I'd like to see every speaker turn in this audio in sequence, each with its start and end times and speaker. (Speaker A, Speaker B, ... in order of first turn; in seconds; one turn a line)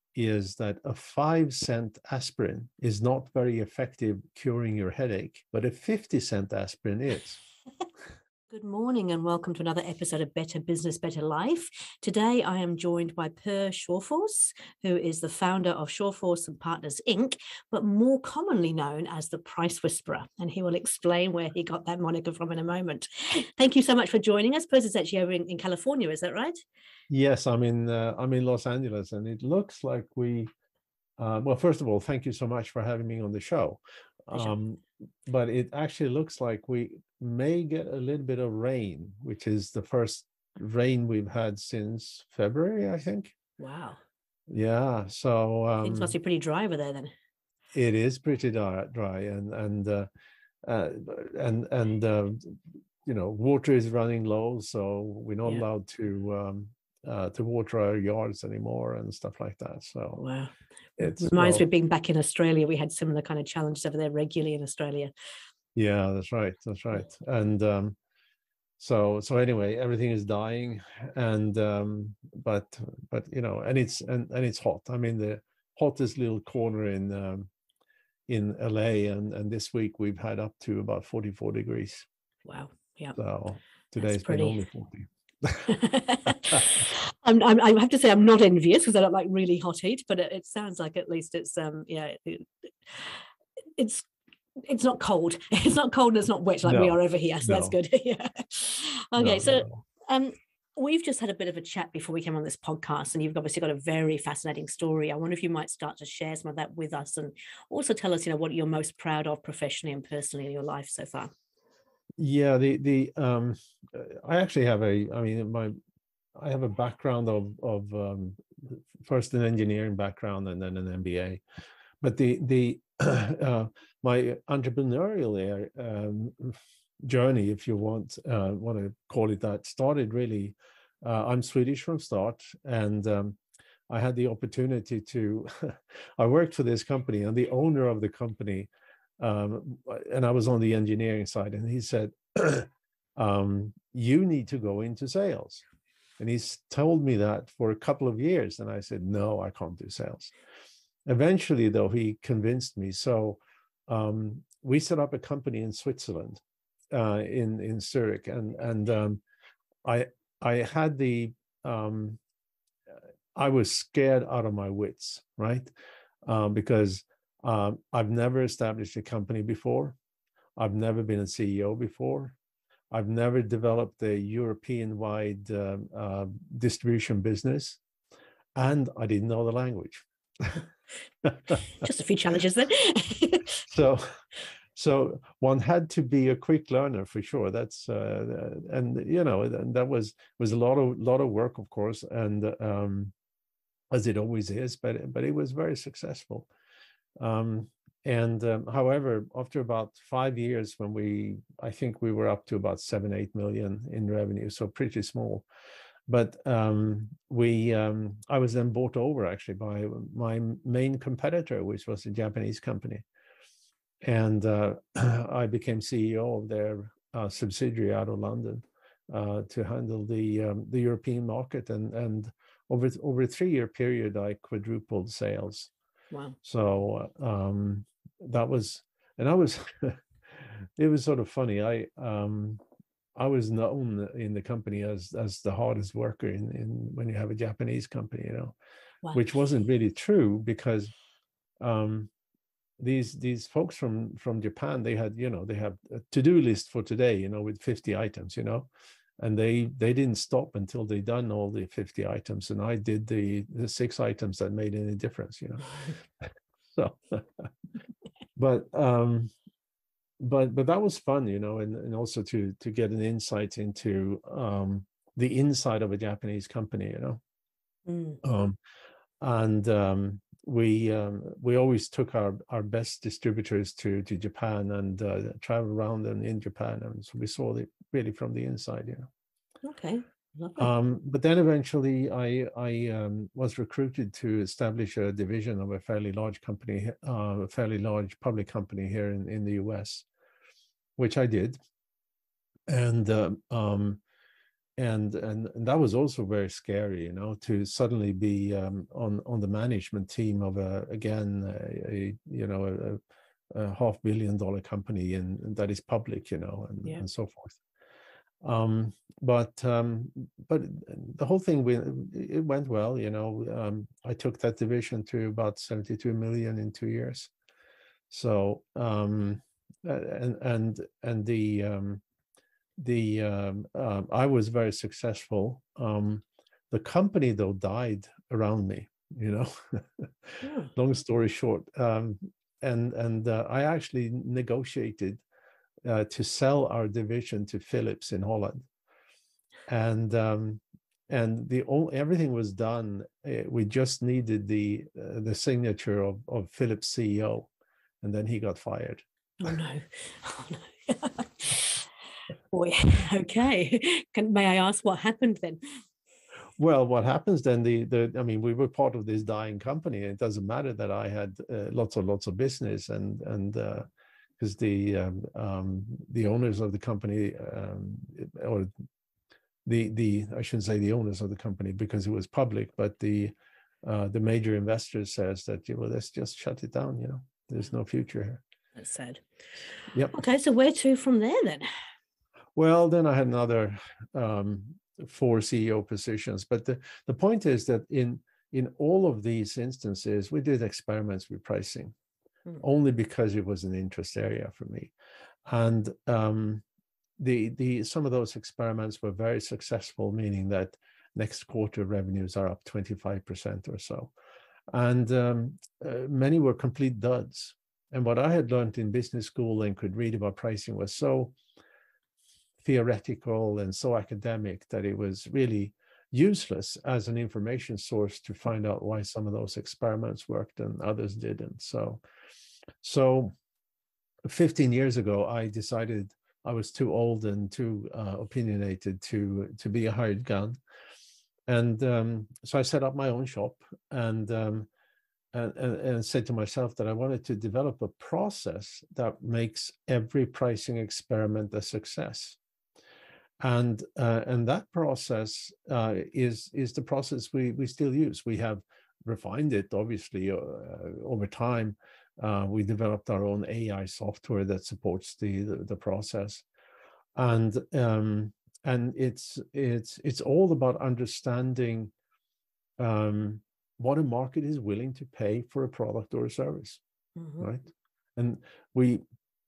Speaker A: 0.1-7.4
Speaker B: 8.5-26.6
Speaker A: 27.1-30.5
Speaker A: 31.2-43.3
Speaker B: 43.6-44.0
Speaker A: 44.5-46.1
Speaker B: 45.8-47.1
Speaker A: 47.7-50.1
Speaker A: 50.7-60.2
Speaker B: 60.2-65.1
Speaker A: 61.0-61.6
Speaker A: 65.8-68.0
Speaker A: 68.8-77.5
Speaker A: 78.3-82.1
Speaker B: 82.5-83.2
Speaker A: 83.2-85.7
Speaker B: 84.0-84.6
Speaker B: 85.7-93.2
Speaker A: 86.3-86.8
Speaker B: 93.8-111.3
Speaker A: 96.7-97.8
Speaker A: 99.2-99.8
Speaker A: 112.2-115.8
Speaker A: 116.4-121.4
Speaker A: 122.0-133.4
Speaker A: 133.9-145.7
Speaker A: 146.2-150.3
Speaker A: 151.1-159.2
Speaker A: 159.8-162.2
Speaker A: 163.3-165.7
Speaker A: 166.3-170.0
Speaker A: 170.6-172.4
Speaker A: 172.9-177.8
Speaker A: 178.6-180.6
Speaker B: 181.7-183.6
Speaker A: 183.7-193.1
Speaker A: 193.9-196.5
Speaker A: 197.2-205.4
Speaker A: 206.1-213.1
Speaker A: 214.0-225.7
Speaker B: 226.1-226.4
Speaker A: 226.4-232.6
Speaker A: 233.2-238.6
Speaker A: 239.1-240.9
Speaker A: 241.6-242.1
Speaker A: 242.8-248.7
Speaker A: 249.2-257.5
Speaker A: 258.4-259.3
Speaker A: 260.2-267.2
Speaker B: 267.9-268.2
Speaker A: 268.2-268.6
Speaker A: 269.2-279.1
Speaker B: 279.6-280.7
Speaker A: 280.6-290.1
Speaker A: 291.0-291.6
Speaker A: 292.7-294.0
Speaker A: 294.8-303.0
Speaker A: 303.5-307.6
Speaker A: 308.4-317.3
Speaker A: 318.1-322.0
Speaker A: 322.8-335.2
Speaker B: 330.4-330.7
Speaker A: 335.9-338.6
Speaker A: 339.7-347.5
Speaker A: 348.0-349.0
Speaker B: 349.4-351.9
Speaker B: 352.5-355.6
Speaker A: 356.6-363.9
Speaker A: 364.4-368.7
Speaker A: 369.7-378.4
Speaker B: 378.8-379.2
Speaker A: 379.9-380.2
Speaker B: 380.1-381.7
Speaker A: 382.6-391.9
Speaker A: 392.6-394.9
Speaker A: 395.4-396.6
Speaker A: 397.2-404.1
Speaker A: 404.7-411.4
Speaker A: 412.6-422.0
Speaker A: 422.8-423.3
Speaker A: 424.3-430.6
Speaker A: 431.5-434.7
Speaker A: 435.3-442.4
Speaker A: 443.4-456.4
Speaker A: 457.2-461.9
Speaker A: 462.8-466.8
Speaker B: 467.2-467.5
Speaker A: 467.4-469.0